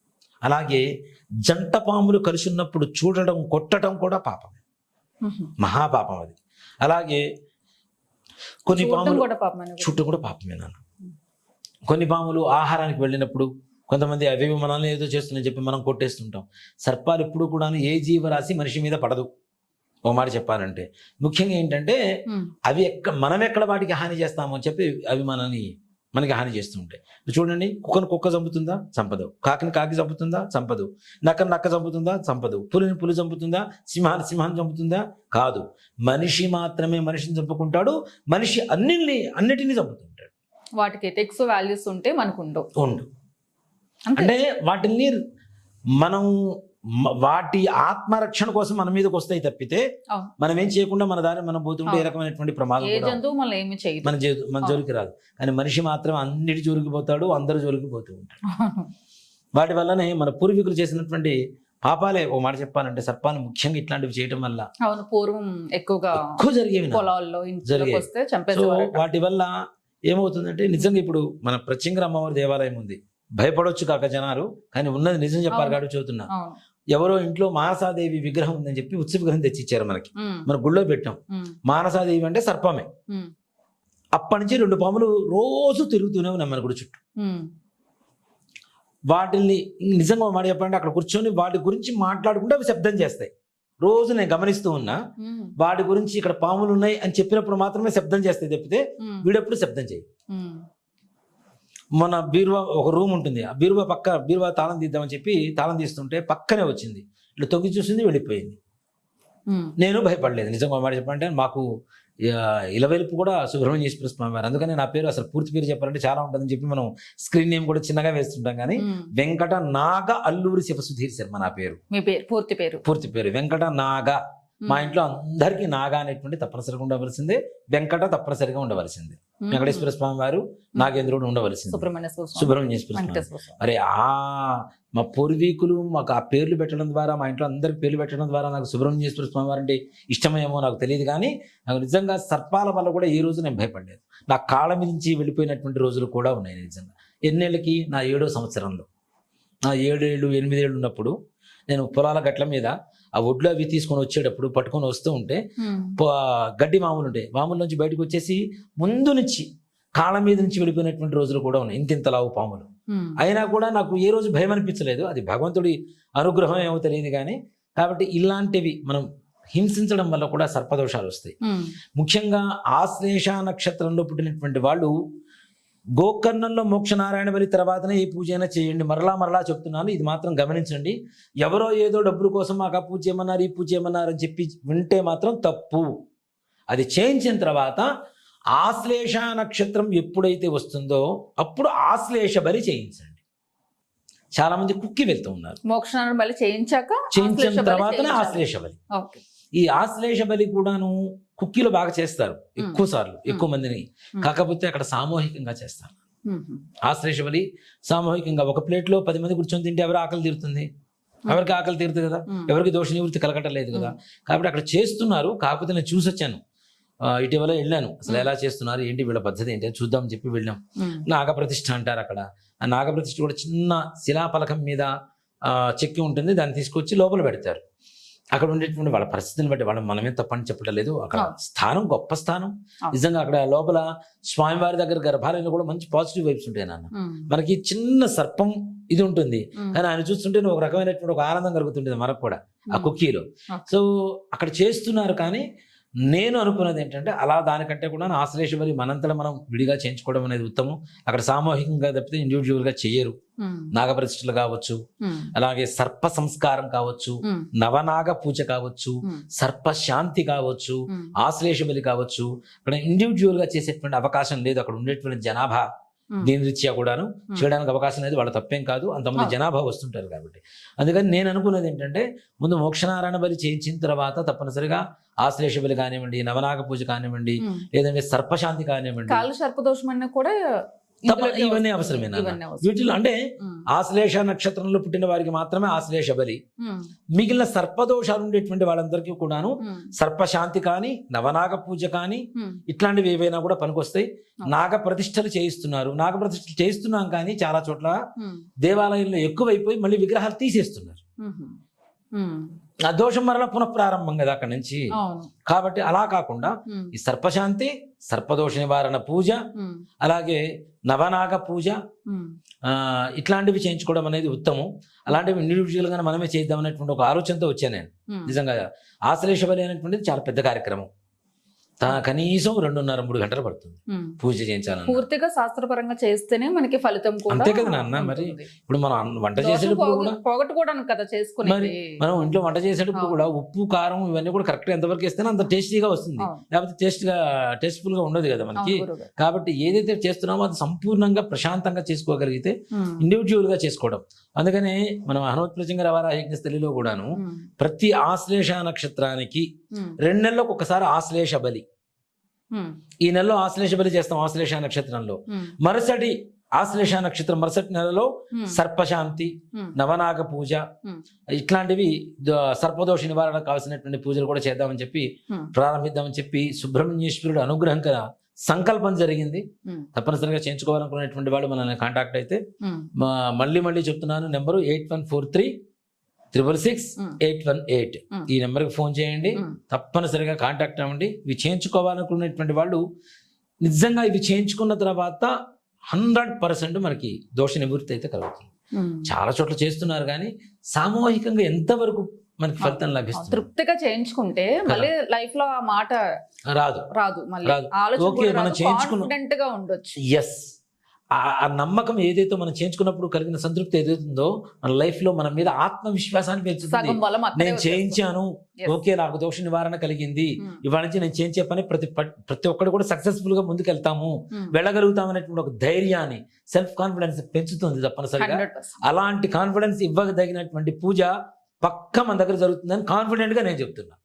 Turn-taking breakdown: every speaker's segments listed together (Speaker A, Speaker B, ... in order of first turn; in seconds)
Speaker A: 0.5-0.8, 1.4-4.6, 5.6-7.2, 8.7-9.2, 9.8-10.8, 11.9-19.3, 20.1-22.0, 22.7-40.3, 42.8-43.1, 44.2-45.2, 46.0-46.3, 47.2-49.8, 50.4-53.2, 54.0-58.4, 59.5-64.7, 66.2-67.0, 67.7-69.6, 70.1-76.3, 76.9-82.9, 84.2-87.0, 89.1-93.3, 93.8-95.0, 95.6-100.1, 102.0-108.6, 109.8-111.7, 112.3-121.8, 122.8-148.9, 149.7-151.1, 151.7-155.4, 156.0-162.7, 163.2-171.3, 172.0-174.9, 176.0-185.9, 186.7-187.9, 188.6-193.2, 194.4-195.6, 197.1-198.8, 199.5-205.9, 206.9-210.7, 211.3-216.4, 217.1-224.9, 225.5-227.6, 228.3-245.4, 246.1-253.2, 253.7-254.8, 255.3-265.6, 266.2-279.3, 281.1-283.2, 283.7-286.4, 287.1-298.0, 298.6-301.0, 302.9-304.9, 305.5-309.4, 310.0-311.8, 312.6-320.9, 321.8-325.1, 327.3-330.2, 331.4-349.5, 350.0-351.6, 353.0-360.6, 361.3-372.4, 373.0-375.5, 376.3-382.8, 383.6-385.3, 385.9-388.5, 389.1-393.5, 394.7-394.9, 396.5-396.9, 397.4-399.1, 400.1-400.5, 401.1-424.0
Speaker B: 5.2-5.5, 8.7-10.0, 40.8-42.7, 44.1-44.3, 51.9-52.1, 52.8-54.8, 58.5-58.9, 64.8-66.4, 66.9-69.0, 75.5-76.6, 80.2-80.5, 87.2-87.5, 95.2-95.5, 99.0-99.3, 100.3-100.6, 109.5-109.7, 118.8-119.1, 121.9-122.8, 124.6-124.9, 129.4-129.9, 131.7-133.6, 155.6-156.0, 162.9-163.2, 171.4-171.7, 195.7-199.2, 202.6-203.5, 206.3-206.7, 211.3-211.5, 212.3-212.6, 220.8-221.0, 236.9-237.3, 253.4-253.7, 255.0-255.3, 260.9-261.1, 279.1-280.4, 281.1-282.7, 286.6-286.9, 289.6-289.9, 292.4-292.6, 298.2-298.4, 301.2-301.6, 302.1-302.6, 304.9-305.3, 306.7-306.9, 309.6-309.8, 312.1-312.3, 318.1-318.4, 323.9-324.2, 324.9-328.5, 329.4-332.0, 332.9-333.3, 338.6-339.1, 342.7-343.0, 347.2-347.5, 358.3-358.6, 372.6-372.9, 388.7-389.1, 392.6-396.0, 396.9-400.0, 406.7-408.0, 418.2-418.8